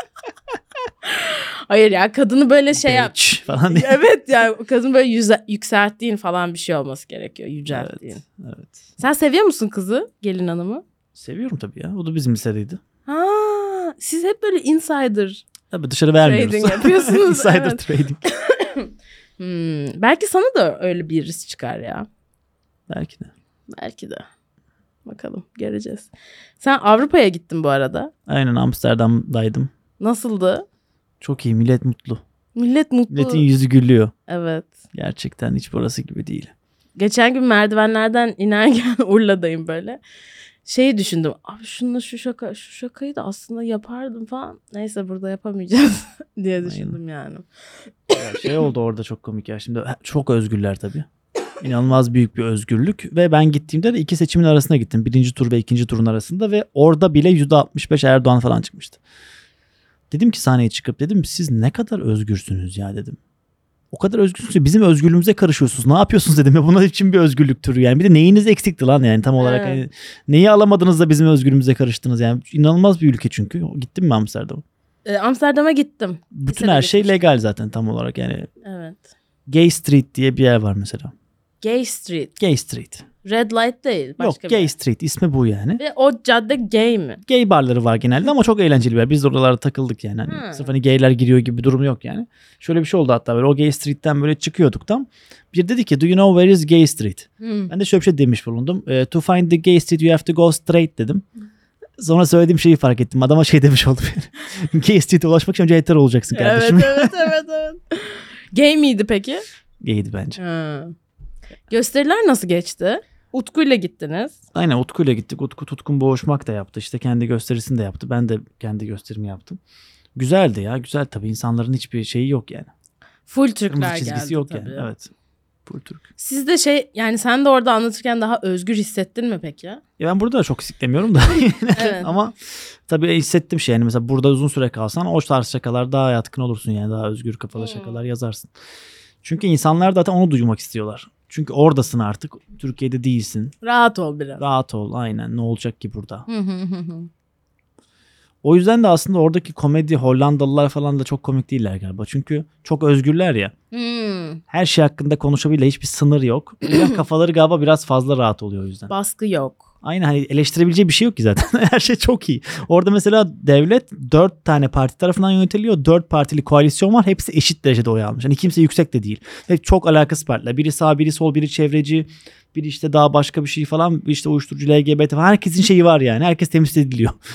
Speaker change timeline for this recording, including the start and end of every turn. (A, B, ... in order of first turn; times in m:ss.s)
0:01.0-0:03.1 A
0:02.7-0:04.0 B
0:03.7-0:08.2 A
0:07.7-0:08.9 B
0:09.0-0:10.8 A
0:11.1-0:12.8 B
0:13.1-0:15.4 A
0:15.7-0:18.2 B
0:16.2-0:22.1 A
0:22.9-0:23.3 B
0:23.7-0:24.2 A
0:25.0-0:28.1 A
0:28.3-0:29.7 B
0:30.0-0:30.6 A
0:31.2-0:32.2 B
0:32.5-0:33.4 A
0:33.1-0:34.1 B
0:34.3-0:34.7 A
0:34.9-0:36.5 B
0:37.0-0:40.0 A
0:40.6-0:47.4 A
0:46.6-0:47.0 B
0:48.1-0:48.5 A
0:48.1-0:51.1 B
0:51.6-0:59.0 B
1:00.1-1:03.2 B
1:03.9-1:14.6 B
1:09.4-1:09.8 A
1:15.0-1:17.2 A
1:16.3-1:18.5 B
1:18.6-1:19.0 A
1:19.5-1:21.1 B
1:21.6-1:22.3 A
1:22.4-1:23.0 B
1:23.2-1:24.7 A
1:24.2-1:25.8 B
1:25.8-1:27.2 A
1:27.3-1:41.2 B
1:30.2-1:30.7 A
1:37.4-1:37.7 A
1:42.0-1:47.3 B
1:46.3-1:49.4 A
1:49.8-1:50.4 B
1:50.4-1:50.9 A
1:51.7-1:54.4 A
1:54.5-1:59.6 B
2:00.1-2:02.7 B
2:03.3-2:04.9 A
2:03.7-2:05.1 B
2:05.6-2:06.0 B
2:06.2-2:09.8 A
2:10.0-2:12.3 B
2:11.8-2:12.1 A
2:12.9-2:18.5 B
2:17.6-2:18.0 A
2:19.2-2:23.5 B
2:23.6-2:24.4 A
2:24.4-2:26.2 B
2:26.3-2:27.1 A
2:28.4-2:33.5 B
2:33.7-2:34.4 A
2:34.5-2:38.9 B
2:38.9-2:39.7 A
2:39.8-2:57.2 B